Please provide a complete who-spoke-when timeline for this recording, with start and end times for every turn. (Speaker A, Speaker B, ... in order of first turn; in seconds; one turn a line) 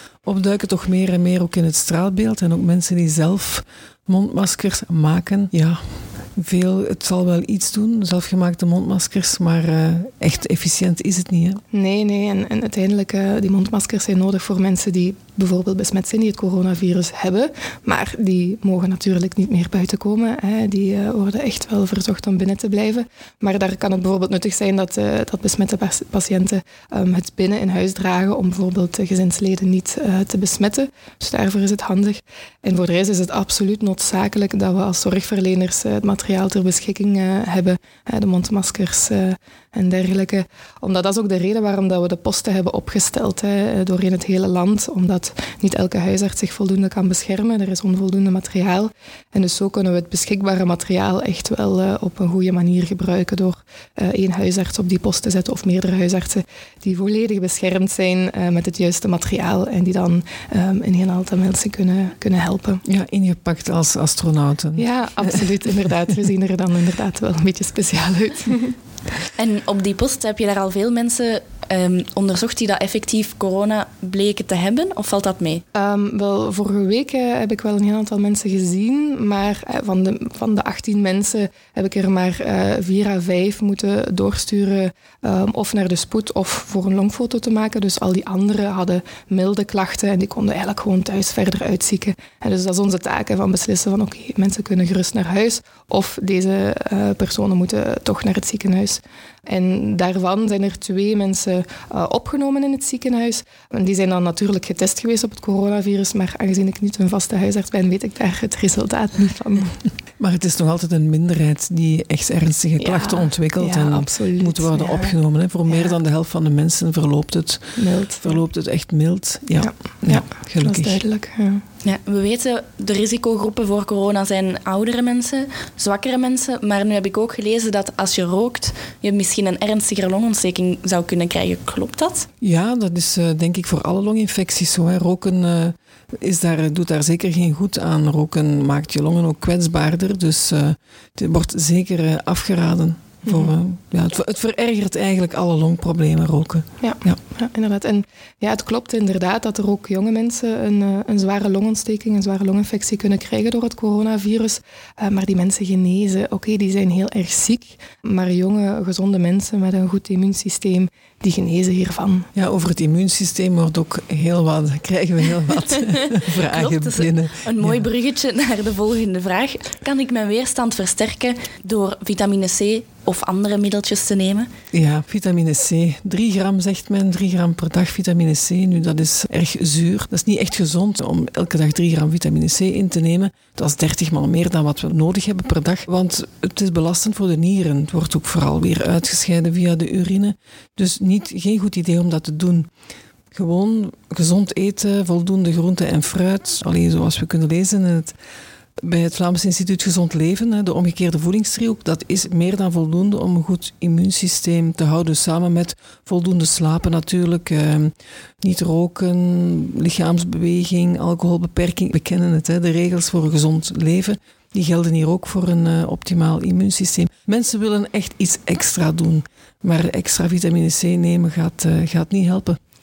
Speaker A: 0.2-11.6
Speaker B: 11.7-62.8
Speaker A: 62.8-65.5
Speaker B: 64.8-68.8
Speaker C: 69.3-75.6
Speaker B: 75.7-109.8
Speaker A: 110.2-121.0
Speaker B: 112.8-115.9
Speaker B: 117.8-118.4
Speaker B: 119.6-121.6
Speaker C: 121.8-132.3
Speaker A: 132.4-147.2
Speaker B: 143.2-143.5
Speaker B: 146.8-162.3
Speaker A: 162.3-167.8
Speaker C: 165.9-174.5
Speaker A: 174.7-192.7
Speaker A: 193.3-198.1
Speaker A: 198.8-222.6